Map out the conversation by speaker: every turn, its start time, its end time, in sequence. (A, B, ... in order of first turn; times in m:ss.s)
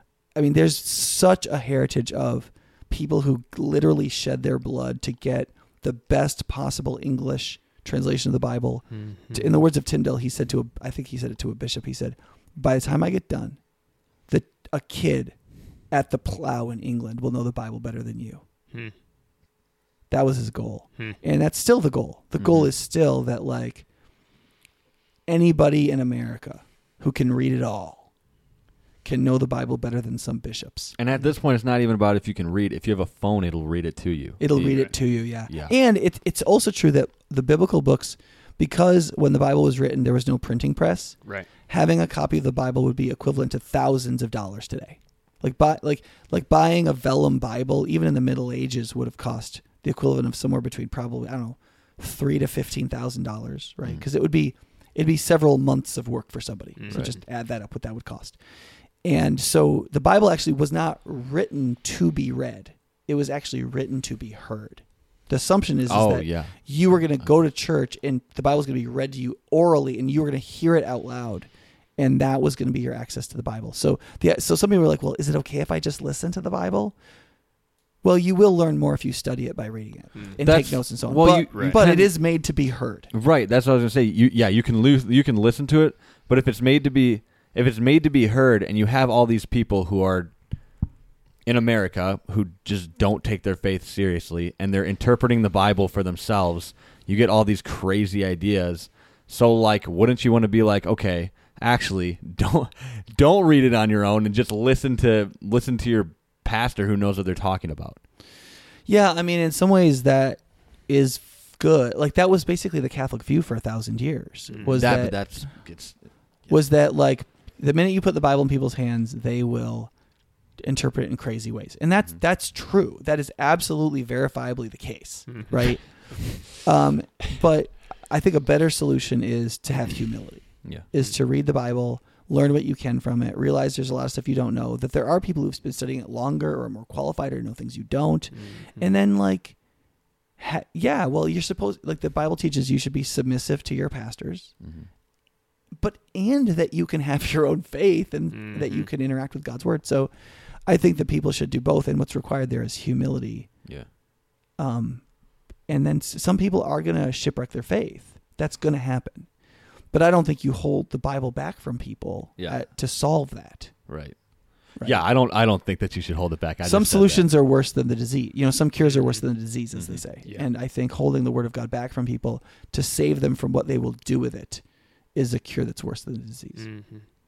0:00.3-0:18.4 A
0:08.9-0:09.5 B
0:20.1-0:23.9 A
0:22.4-0:22.7 C
0:25.3-0:28.4 A
0:29.0-0:31.0 A
0:31.0-0:35.7 C
0:34.4-1:17.0 A
0:34.6-0:35.0 B
0:56.8-0:57.2 B
0:56.9-0:57.2 C
1:05.9-1:07.3 C
1:18.0-1:23.1 A
1:20.4-1:22.2 C
1:21.5-1:21.8 B
1:23.1-1:30.8 C
1:31.4-1:48.0 C
1:48.8-1:55.8 A
1:54.5-1:55.0 B
1:54.7-1:56.6 C
1:56.4-2:24.6 A
2:05.3-2:06.4 B
2:18.3-2:18.9 B
2:24.6-2:24.9 C
2:25.7-2:33.7 A
2:28.3-2:28.9 B
2:34.6-2:43.9 A
2:43.9-2:47.3 C
2:44.8-2:45.0 A
2:46.6-2:56.7 A
2:48.8-2:49.3 B
2:49.7-2:50.0 C
2:56.6-2:57.1 B